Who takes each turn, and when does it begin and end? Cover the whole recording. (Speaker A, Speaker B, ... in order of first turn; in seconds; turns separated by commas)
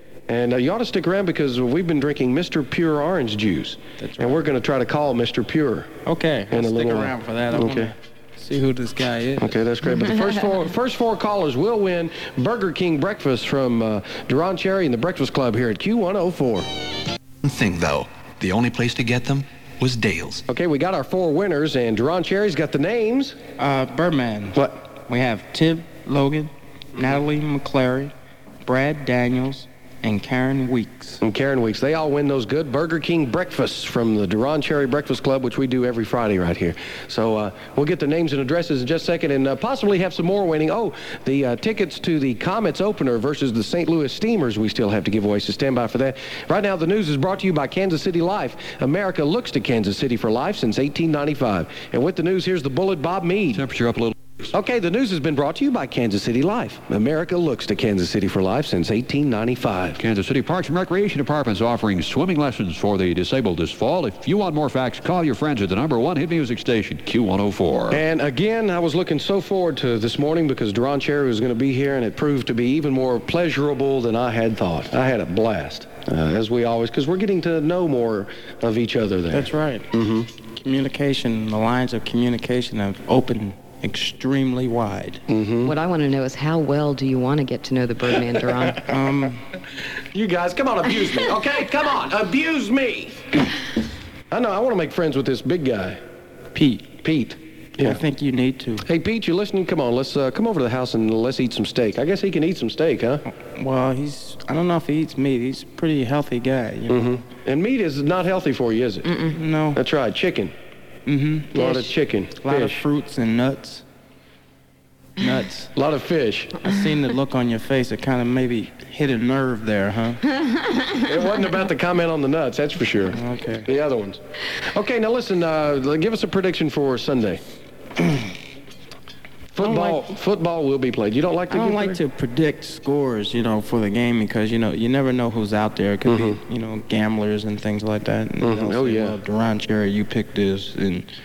Speaker A: 0.3-5.9, Speaker B: 4.0-4.4, Speaker B: 6.0-9.6, Speaker A: 6.5-7.9, Speaker A: 9.4-16.7, Speaker C: 17.4-20.4, Speaker A: 20.5-23.4, Speaker B: 23.6-28.1, Speaker B: 28.6-31.2, Speaker A: 31.2-53.6, Speaker D: 53.5-54.1, Speaker A: 54.5-60.0, Speaker D: 60.0-68.0, Speaker A: 67.9-80.3, Speaker B: 79.3-79.9, Speaker B: 80.6-85.2, Speaker A: 85.3-85.7, Speaker E: 85.6-88.8, Speaker B: 88.8-89.4, Speaker A: 90.1-93.5, Speaker A: 94.3-96.0, Speaker B: 96.5-97.0, Speaker A: 97.0-98.0, Speaker B: 97.8-98.8, Speaker A: 98.8-103.2, Speaker B: 103.5-107.1, Speaker A: 106.9-109.1, Speaker B: 109.3-109.8, Speaker A: 109.7-110.5, Speaker B: 111.0-111.8, Speaker A: 111.5-112.8, Speaker B: 112.4-113.8, Speaker B: 115.2-115.7, Speaker A: 115.7-116.6, Speaker B: 116.6-120.2, Speaker A: 121.0-127.4, Speaker B: 123.1-123.7, Speaker A: 129.5-132.0, Speaker B: 129.6-130.1, Speaker B: 131.5-141.1, Speaker A: 136.1-136.4, Speaker A: 138.4-139.2